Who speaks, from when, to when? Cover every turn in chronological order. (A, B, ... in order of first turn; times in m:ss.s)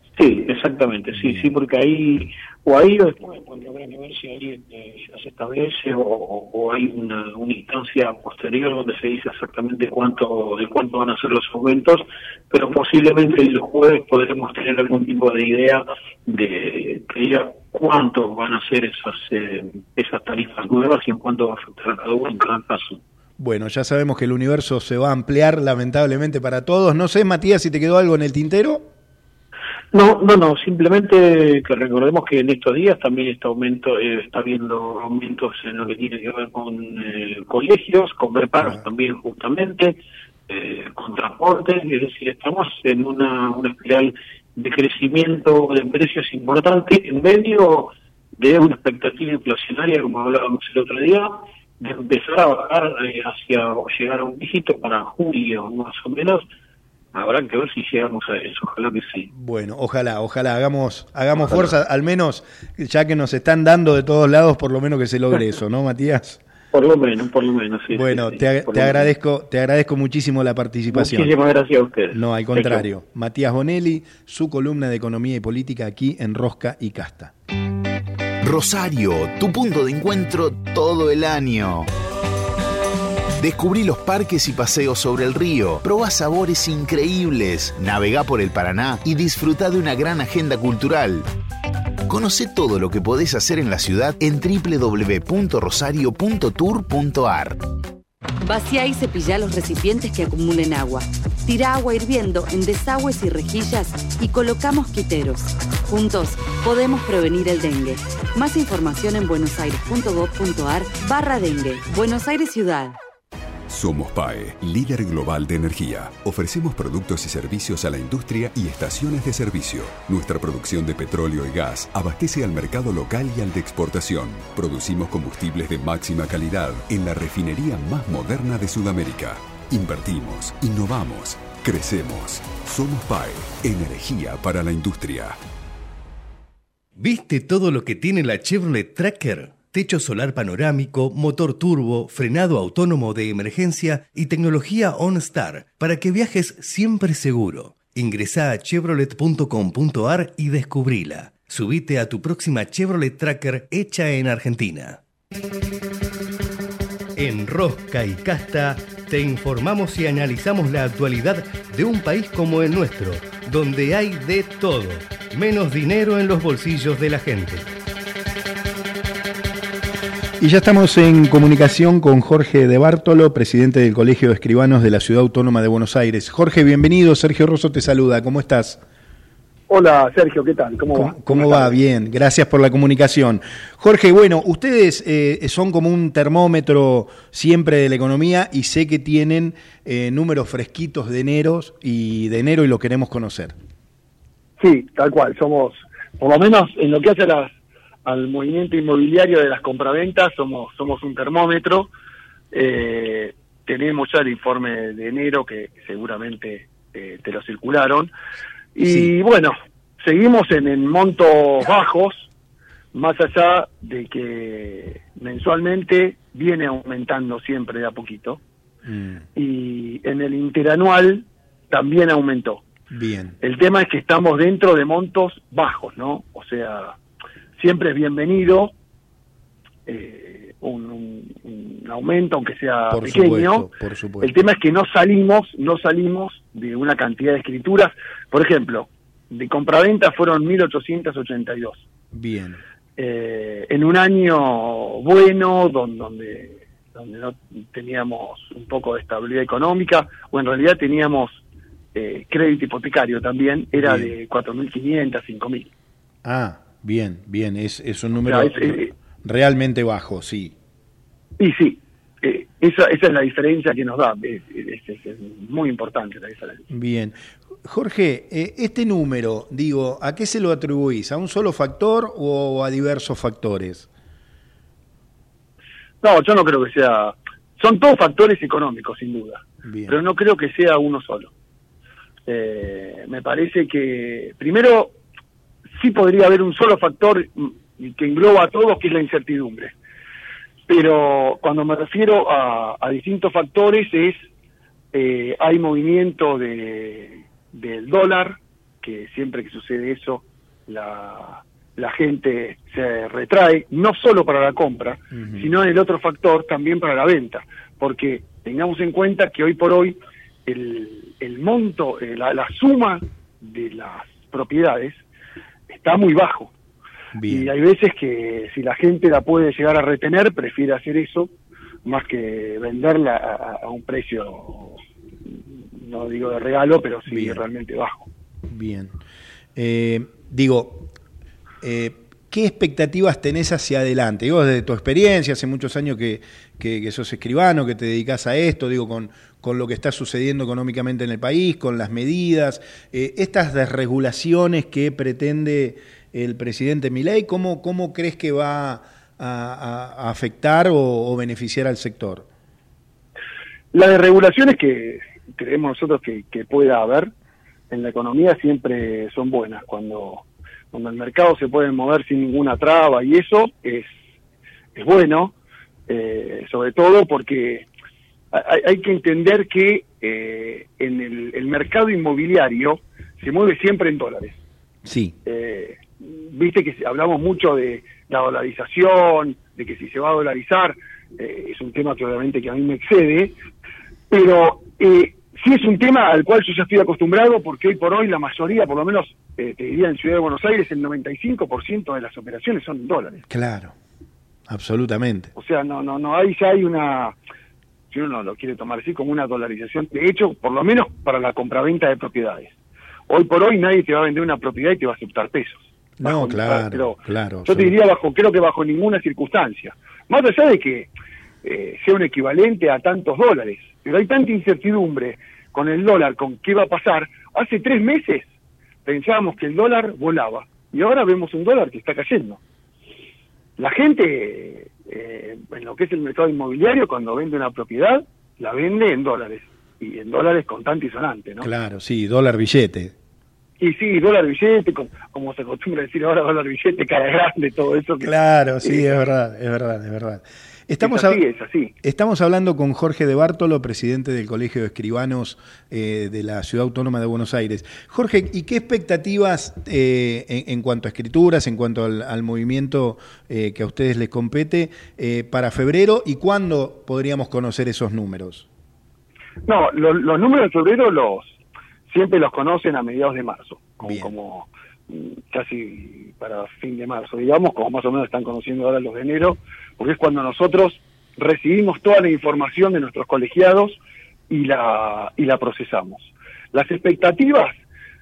0:00.2-0:23.0 A
0:01.1-0:01.5 B
0:23.4-0:28.9 B
0:29.9-0:56.4 A
0:57.1-0:59.3 A
0:59.3-1:06.4 B
1:01.4-1:01.7 A
1:06.7-1:09.1 A
1:07.9-1:11.3 B
1:10.9-1:12.8 A
1:12.1-1:17.3 B
1:18.4-1:21.9 C
1:23.4-1:31.3 C
1:32.1-1:37.6 C
1:38.4-1:53.0 D
1:53.7-2:15.4 E
2:17.0-2:35.0 F
2:37.2-2:47.7 F
2:50.4-2:58.8 B
2:59.7-3:01.8 G
3:00.9-3:13.6 B
3:14.6-3:17.5 G
3:18.0-3:21.9 G
3:22.5-3:28.1 G
3:28.8-3:32.3 G
3:28.8-3:29.1 B
3:32.9-3:38.4 G
3:38.8-3:39.2 B
3:39.3-3:42.6 G
3:42.9-3:43.4 B
3:43.4-3:47.0 G
3:47.6-3:48.7 G
3:49.9-3:53.7 G
3:52.9-3:54.4 B
3:54.2-4:01.9 G
4:02.1-4:02.6 B
4:03.0-4:11.4 G
4:11.9-4:15.7 G
4:13.8-4:14.1 B
4:16.2-4:20.5 B
4:18.2-4:18.9 G
4:21.4-4:26.7 G
4:26.7-4:33.9 B
4:36.0-4:41.3 G
4:39.6-4:40.0 B
4:42.3-4:45.0 G
4:45.7-4:49.7 G
4:50.7-4:54.3 G
4:54.9-5:15.0 G
5:05.1-5:05.5 B
5:15.7-5:16.5 G
5:17.1-5:17.5 B
5:17.3-5:21.3 G
5:21.8-5:28.1 G
5:27.1-5:27.4 B
5:28.5-5:29.0 B
5:29.6-5:30.9 B
5:31.6-5:52.2 B
5:53.7-5:57.1 G
5:57.7-6:04.0 G
6:04.8-6:05.3 G
6:05.9-6:07.7 G
6:08.3-6:14.4 G
6:14.8-6:15.2 B
6:15.2-6:23.3 G
6:24.1-6:33.2 G
6:33.3-6:33.7 B
6:34.5-6:35.3 B
6:35.3-6:37.1 G
6:37.9-6:42.5 G
6:43.1-6:50.9 G
6:46.0-6:47.7 B
6:51.4-6:58.3 G
6:58.8-7:02.4 G
7:03.6-7:11.5 G
7:11.4-7:12.9 B
7:13.6-7:19.0 G
7:18.0-7:21.2 B
7:20.8-7:21.7 G
7:21.8-7:38.5 B
7:39.5-7:57.6 G
7:43.8-7:44.1 B